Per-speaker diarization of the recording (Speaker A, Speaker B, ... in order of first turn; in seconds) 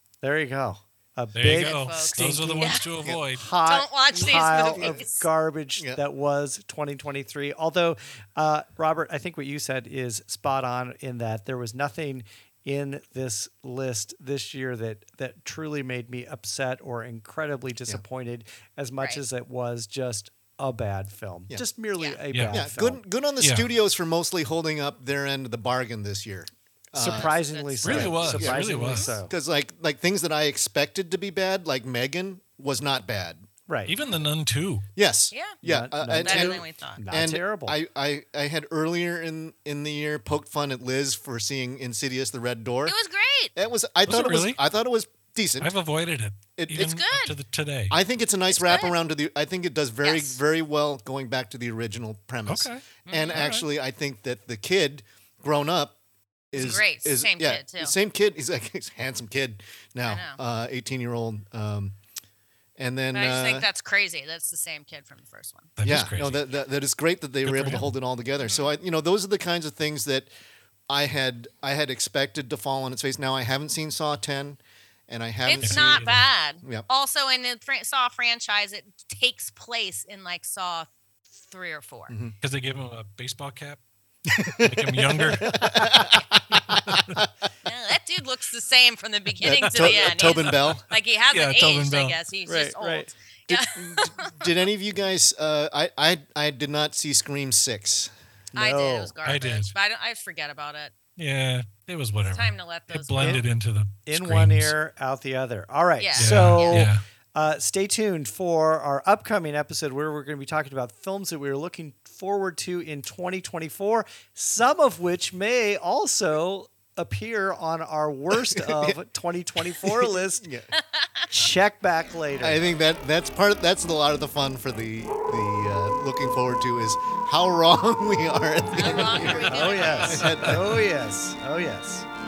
Speaker A: 0.2-23.0, 26.9-29.3, 33.7-33.9, 35.6-37.8, 92.5-93.1, 98.5-99.1, 103.2-103.4, 104.1-120.4, 121.3-122.7, 129.5-132.1
Speaker B: 1.3-3.5, 22.3-22.6, 23.4-23.7, 27.8-29.2, 33.9-34.9, 44.0-44.6, 45.6-48.0, 52.5-53.6, 65.8-66.4, 67.4-67.9, 75.6-76.2, 82.4-83.8, 84.6-85.9, 86.7-87.1, 90.5-90.8, 91.3-92.2, 99.2-99.7, 101.2-104.7, 106.2-107.0, 130.0-130.8
Speaker C: 1.5-2.9, 3.6-5.3, 27.1-28.1, 36.2-37.0, 42.9-43.5, 46.8-47.4, 48.5-49.0, 50.0-50.4, 53.1-53.5, 56.5-57.9, 60.0-60.4, 63.1-65.7, 68.4-68.8, 75.4-82.1, 87.6-94.5, 98.5-100.9, 102.2-103.4, 106.0-106.9, 120.8-121.3, 128.7-130.2
Speaker D: 4.3-5.0, 22.5-33.5, 35.0-43.0, 43.5-45.7, 46.5-47.0, 47.9-56.0, 56.5-62.0, 62.8-63.7, 65.8-70.3, 70.9-76.0, 82.1-82.3, 84.3-87.3, 89.4-90.8, 93.5-98.1, 118.3-119.0, 119.8-120.7, 122.4-130.7